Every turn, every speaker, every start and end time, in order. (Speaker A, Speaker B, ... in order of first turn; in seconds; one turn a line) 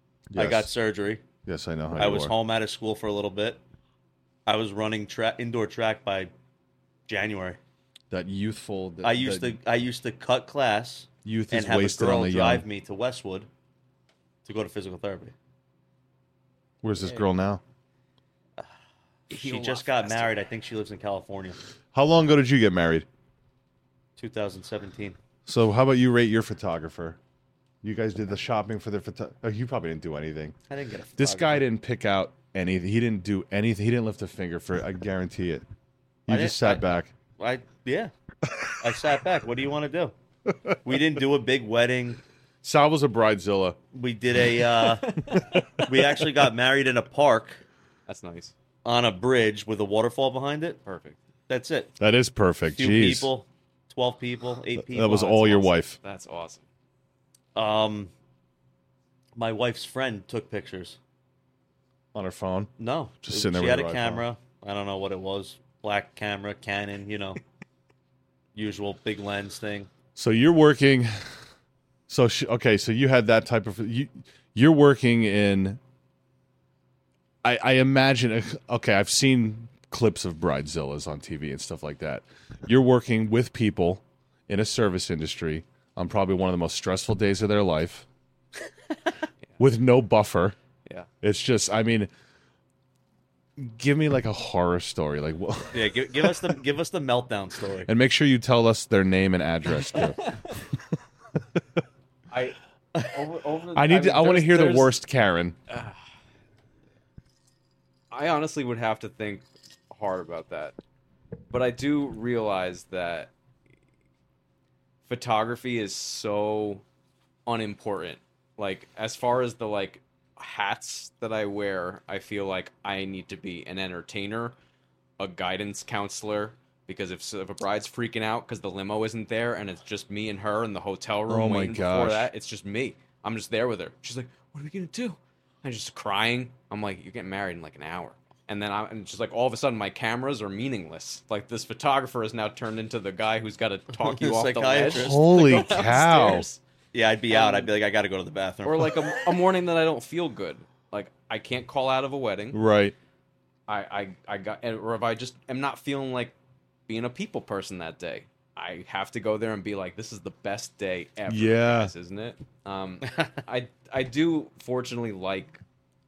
Speaker A: 0.3-0.7
Speaker B: 0.4-1.2
Speaker A: 1.4-2.3
Speaker B: 1.9-3.6
Speaker B: 4.5-6.3
Speaker B: 7.1-7.6
Speaker A: 8.1-9.6
Speaker B: 9.0-13.5
Speaker A: 11.2-12.7
Speaker B: 14.4-15.3
Speaker A: 16.8-17.6
Speaker C: 17.0-17.3
Speaker B: 19.3-21.6
Speaker C: 19.3-20.4
Speaker A: 21.9-23.1
Speaker B: 24.2-25.2
Speaker A: 25.5-27.2
Speaker A: 27.8-30.6
Speaker B: 30.7-31.6
Speaker A: 31.2-35.6
Speaker A: 36.3-37.1
Speaker B: 36.3-38.1
Speaker B: 38.8-40.1
Speaker B: 40.8-42.2
Speaker A: 42.6-43.8
Speaker B: 43.9-45.2
Speaker C: 45.1-45.4
Speaker A: 45.3-46.1
Speaker B: 45.8-47.6
Speaker C: 48.1-48.5
Speaker B: 48.9-50.8
Speaker C: 50.9-51.2
Speaker B: 51.5-51.9
Speaker A: 52.0-53.3
Speaker B: 52.7-55.7
Speaker A: 54.8-56.0
Speaker C: 56.0-56.6
Speaker B: 57.5-58.1
Speaker B: 59.4-61.0
Speaker A: 62.1-62.7
Speaker B: 62.8-67.4
Speaker A: 63.2-64.3
Speaker B: 68.5-69.9
Speaker A: 70.2-71.3
Speaker A: 72.1-75.8
Speaker A: 77.4-88.1
Speaker A: 89.6-90.6
Speaker A: 91.2-92.1
Speaker A: 93.6-96.5
Speaker B: 95.7-97.9
Speaker A: 97.9-100.2
Speaker C: 99.8-100.4
Speaker C: 102.3-105.0
Speaker A: 103.7-105.6
Speaker C: 105.7-106.0
Speaker C: 108.1-110.8
Speaker C: 111.5-113.3
Speaker C: 115.0-116.8
Speaker C: 117.5-124.5
Speaker C: 125.2-146.6
Speaker A: 131.3-132.3
Speaker B: 144.0-145.5
Speaker A: 144.9-146.5
Speaker B: 146.9-149.1
Speaker C: 147.3-147.7
Speaker C: 148.7-152.6
Speaker A: 152.5-152.9
Speaker C: 153.7-156.4
Speaker C: 156.9-165.6
Speaker A: 161.3-161.9